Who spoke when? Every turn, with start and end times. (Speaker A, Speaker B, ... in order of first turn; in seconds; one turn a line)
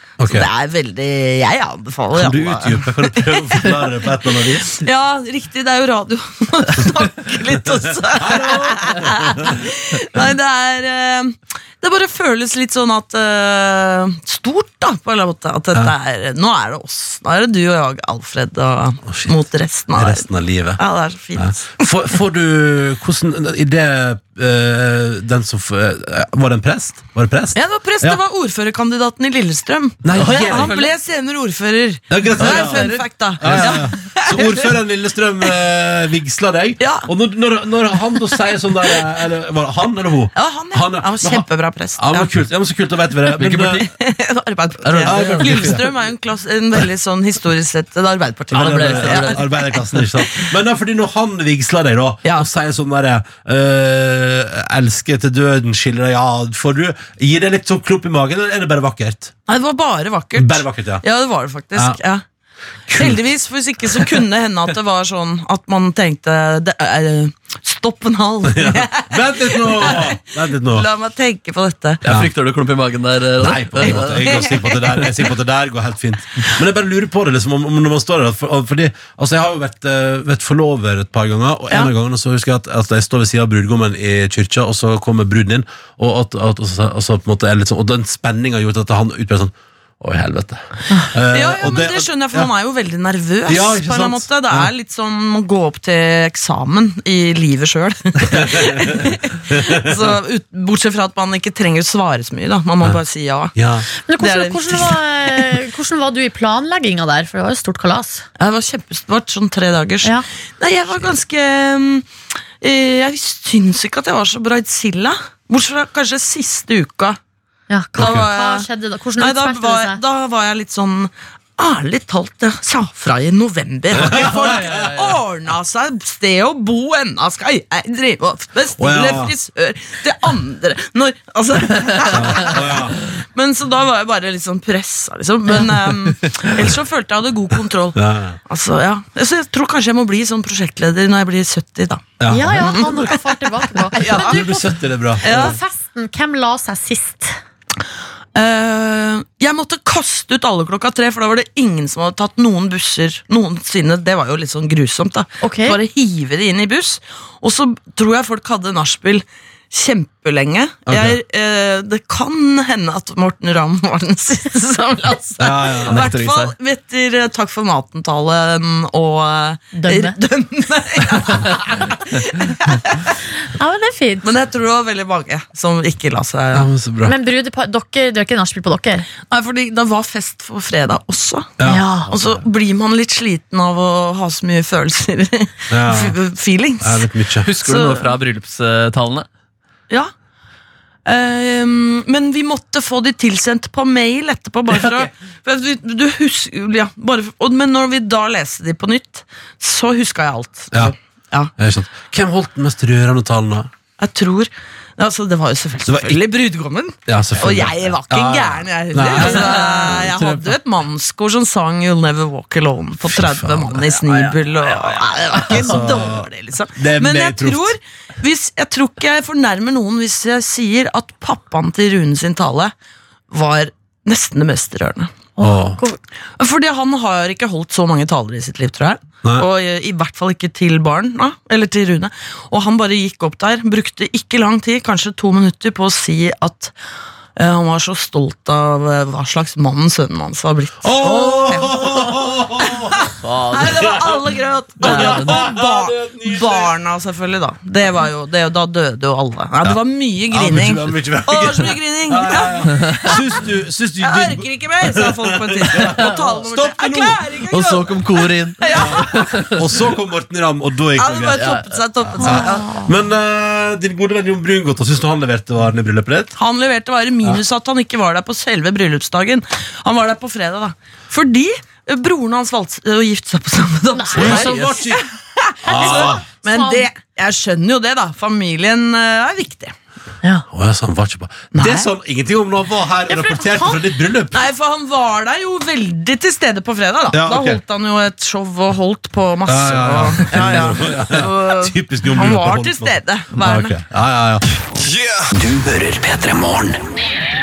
Speaker A: 0.2-0.5
Speaker B: 0.3-3.8
Speaker A: 2.1-4.7
Speaker B: 4.4-20.2
Speaker A: 8.2-9.6
Speaker A: 19.9-20.8
Speaker B: 20.8-21.9
Speaker A: 21.4-28.2
Speaker B: 27.5-34.7
Speaker A: 30.0-30.7
Speaker C: 30.1-30.9
Speaker A: 32.1-43.9
Speaker C: 32.4-33.9
Speaker B: 36.8-37.1
Speaker B: 40.3-42.3
Speaker C: 43.4-43.8
Speaker B: 43.5-49.8
Speaker C: 44.8-45.8
Speaker A: 45.0-45.9
Speaker C: 48.5-50.0
Speaker A: 48.5-59.3
Speaker B: 59.5-62.2
Speaker A: 60.4-61.0
Speaker A: 62.9-63.3
Speaker B: 62.9-70.2
Speaker A: 68.5-70.9
Speaker B: 70.7-72.0
Speaker A: 72.0-72.3
Speaker C: 72.0-74.5
Speaker A: 73.4-92.5
Speaker B: 74.4-74.7
Speaker B: 91.3-103.5
Speaker A: 93.5-94.7
Speaker A: 98.7-99.9
Speaker A: 103.5-103.8
Speaker D: 104.1-108.2
Speaker B: 104.2-104.9
Speaker B: 108.4-112.1
Speaker B: 112.6-117.2
Speaker D: 117.7-120.0
Speaker B: 118.0-118.7
Speaker A: 118.0-118.2
Speaker B: 119.2-142.2
Speaker A: 124.0-124.7
Speaker C: 124.2-125.2
Speaker A: 128.8-129.3
Speaker A: 132.1-132.9
Speaker A: 137.9-138.4
Speaker A: 142.2-143.1
Speaker D: 142.3-144.6
Speaker B: 142.8-143.2
Speaker B: 143.7-144.6
Speaker A: 144.0-145.5
Speaker B: 145.2-145.6
Speaker D: 145.2-147.4
Speaker B: 148.3-173.1
Speaker D: 155.4-155.8
Speaker A: 160.9-161.2
Speaker A: 165.4-166.1
Speaker C: 165.8-166.5
Speaker D: 169.7-170.1
Speaker D: 173.5-174.3
Speaker B: 174.2-176.7
Speaker A: 176.5-177.1
Speaker D: 177.0-179.1
Speaker B: 179.3-181.5
Speaker D: 181.6-182.1
Speaker B: 182.1-187.1
Speaker A: 185.7-186.2
Speaker A: 186.8-187.5
Speaker C: 187.4-189.3
Speaker B: 187.6-188.1
Speaker B: 191.0-201.5
Speaker A: 201.6-203.7
Speaker B: 204.0-222.7
Speaker A: 205.8-206.2
Speaker A: 207.1-210.5
Speaker A: 213.1-213.9
Speaker C: 214.1-214.7
Speaker A: 215.5-217.8
Speaker B: 223.3-225.2
Speaker D: 225.4-226.0
Speaker A: 225.4-225.8
Speaker B: 226.4-236.7
Speaker B: 237.3-242.1
Speaker A: 240.8-243.1
Speaker B: 243.0-253.2
Speaker C: 243.2-243.9
Speaker A: 244.8-246.7
Speaker C: 244.8-245.4
Speaker A: 250.3-257.2
Speaker C: 252.8-253.1
Speaker B: 254.0-259.4
Speaker C: 255.8-256.2
Speaker C: 257.5-259.5
Speaker A: 258.9-261.5
Speaker B: 261.0-262.8
Speaker C: 261.4-262.4
Speaker A: 262.2-266.3
Speaker B: 266.4-279.7
Speaker D: 273.9-274.4
Speaker A: 274.1-275.1
Speaker A: 275.6-276.2
Speaker D: 275.7-276.9
Speaker A: 280.5-284.4
Speaker B: 281.5-281.9
Speaker B: 284.3-293.8
Speaker A: 287.1-287.6
Speaker A: 289.4-294.4
Speaker E: 294.8-296.9